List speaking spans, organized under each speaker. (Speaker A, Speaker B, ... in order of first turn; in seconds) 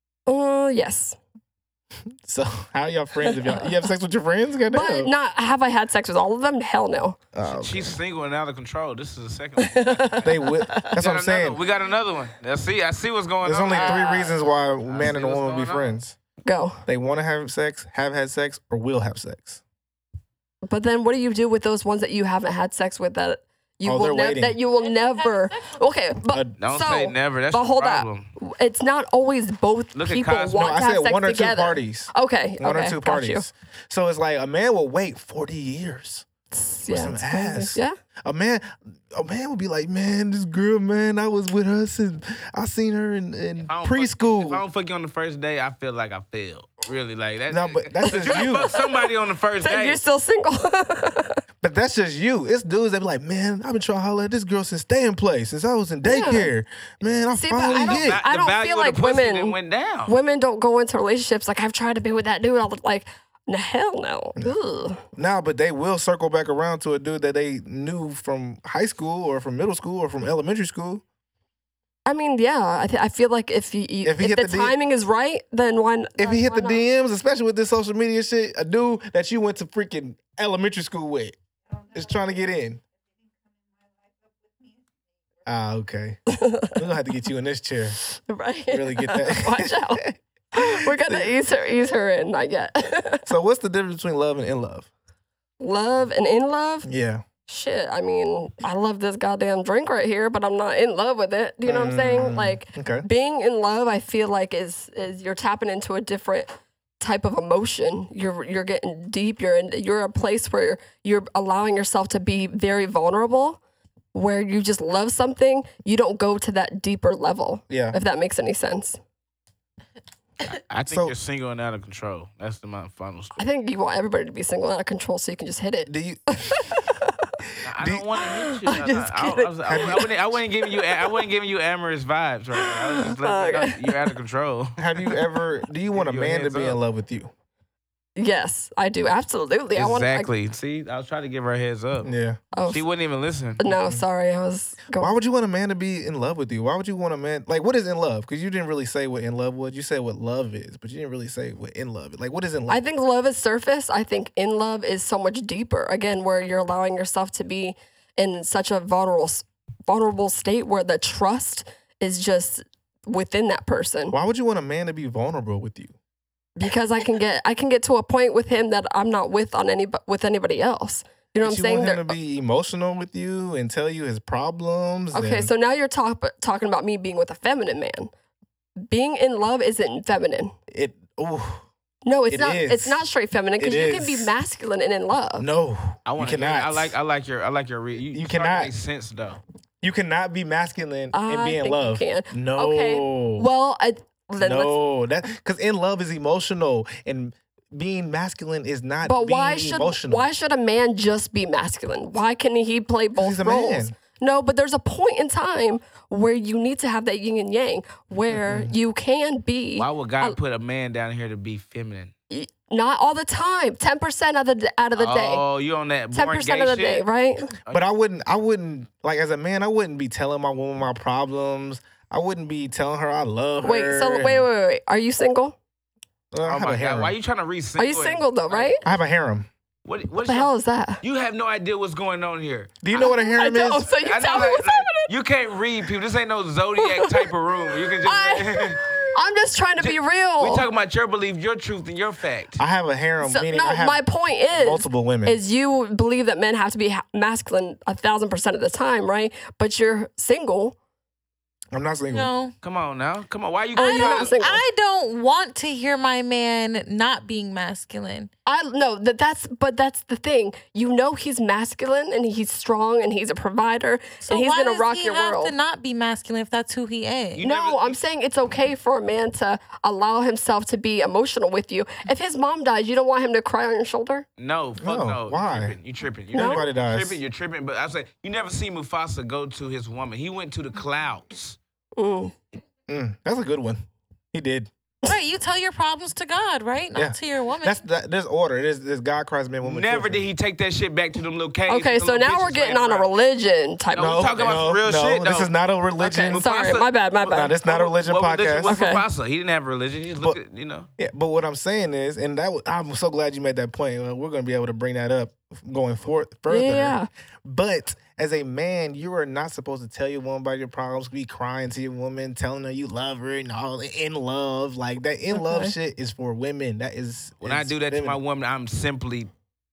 Speaker A: 0.3-1.2, 3.2-3.7, 4.7-7.2, 9.6-10.9, 16.4-16.8, 20.7-33.5, 36.5-38.0, 48.0-49.1, 49.6-51.4, 56.0-56.5, 57.3-59.6, 60.1-65.0, 72.1-76.8, 86.3-86.8, 88.0-93.3, 95.6-96.9, 97.5-113.6, 114.1-119.0, 123.4-127.3, 128.2-129.5, 130.8-131.1, 132.6-134.0, 138.2-140.3, 142.5-142.8, 143.6-145.1, 152.7-164.2, 166.6-172.2, 175.1-178.1, 178.9-180.5, 182.1-185.5, 191.1-194.8, 199.0-210.4, 212.3-215.4, 216.1-217.5, 223.6-225.6, 227.8-228.8, 230.2-231.0, 232.9-235.1, 236.8-237.3, 238.0-240.7, 243.2-250.8, 253.8-254.6, 258.5-265.5, 267.4-274.3, 276.4-276.6, 282.0-282.4, 291.7-294.6, 296.3-297.6, 298.6-299.0, 306.5-307.1, 315.3-315.7
Speaker B: 2.2-5.1, 7.3-8.0, 10.2-11.6, 13.4-16.1, 16.9-19.6, 23.9-24.6, 26.3-26.6, 30.6-36.2, 36.9-44.6, 47.5-48.7, 51.6-58.2, 65.1-71.0, 74.0-74.8, 76.2-81.4, 81.9-82.8, 85.5-88.0, 88.7-91.3, 93.3-94.9, 96.8-97.2, 101.7-103.1, 117.7-118.0, 120.9-121.2, 125.9-126.8, 127.8-128.1, 129.7-130.1, 134.8-137.3, 142.0-142.4, 143.7-144.0, 144.9-152.8, 164.1-165.9, 171.4-175.5, 180.7-181.6, 182.3-183.1, 183.6-184.3, 185.4-186.9, 188.1-188.7, 189.8-193.5, 194.4-200.3, 203.2-203.9, 208.3-208.7, 217.7-224.4, 226.3-227.2, 228.8-229.5, 232.8-233.9, 242.6-244.0, 244.5-245.4, 251.7-252.3, 274.8-275.8, 276.3-277.2, 282.9-284.7, 286.9-290.2, 294.0-296.4, 297.3-298.8, 301.0-318.2
Speaker C: 7.5-16.0, 26.6-28.3, 29.9-30.7, 43.6-50.0, 57.7-60.2, 120.5-123.4, 127.7-135.2, 135.9-136.8, 139.7-142.1, 142.7-143.6, 186.1-189.4, 209.8-212.1, 215.0-217.1, 217.6-217.8, 226.4-228.8, 229.8-230.5, 231.0-232.7, 233.9-239.1, 239.8-242.6, 252.6-254.4, 267.4-268.0, 274.4-281.6, 289.6-293.1, 293.9-300.9, 317.4-319.3
Speaker D: 13.7-14.1, 252.1-252.5, 253.8-258.3, 264.3-267.4, 285.1-287.8